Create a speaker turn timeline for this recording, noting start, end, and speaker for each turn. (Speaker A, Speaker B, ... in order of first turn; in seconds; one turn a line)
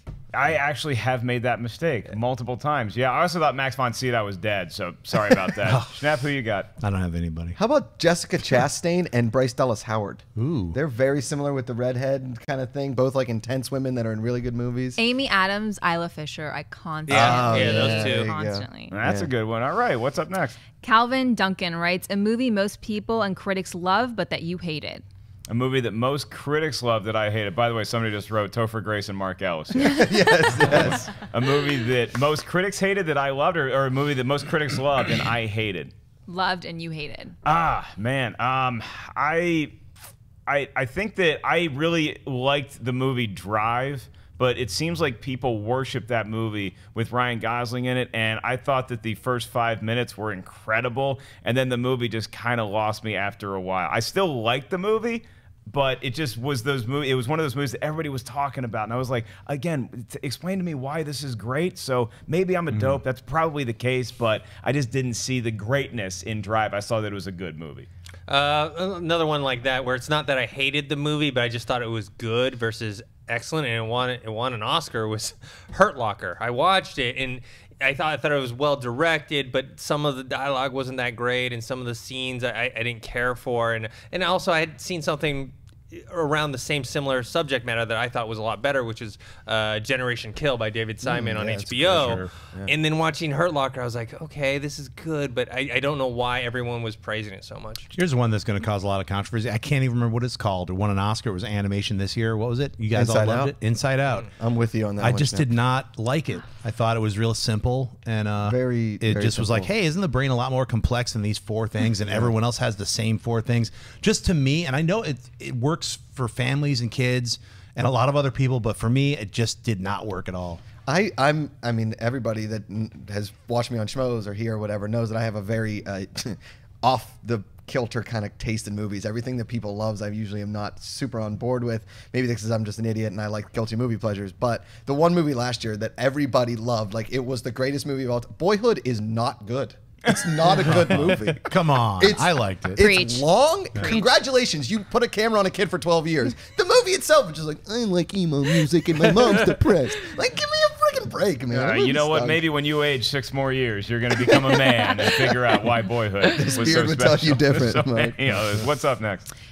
Speaker A: 0.3-6.7
Speaker B: 5.6-6.0
Speaker B: 6.8-7.6
Speaker C: 7.6-15.0
Speaker B: 10.3-10.8
Speaker D: 15.0-18.9
Speaker E: 17.1-18.3
Speaker C: 17.1-19.3
Speaker A: 18.9-20.6
Speaker D: 20.8-25.0
Speaker A: 25.5-35.9
Speaker C: 29.8-31.1
Speaker D: 36.3-37.4
Speaker A: 37.4-39.7
Speaker A: 40.5-67.9
Speaker B: 62.7-63.0
Speaker E: 68.3-97.9
Speaker C: 91.0-92.7
Speaker B: 91.8-92.3
Speaker B: 97.9-104.3
Speaker C: 102.9-103.5
Speaker C: 104.3-105.5
Speaker B: 105.0-120.6
Speaker C: 108.4-109.7
Speaker C: 120.8-152.4
Speaker A: 140.1-141.3
Speaker B: 140.6-142.8
Speaker D: 142.8-143.3
Speaker B: 143.7-144.0
Speaker D: 143.8-144.1
Speaker A: 151.5-159.3
Speaker C: 156.3-158.3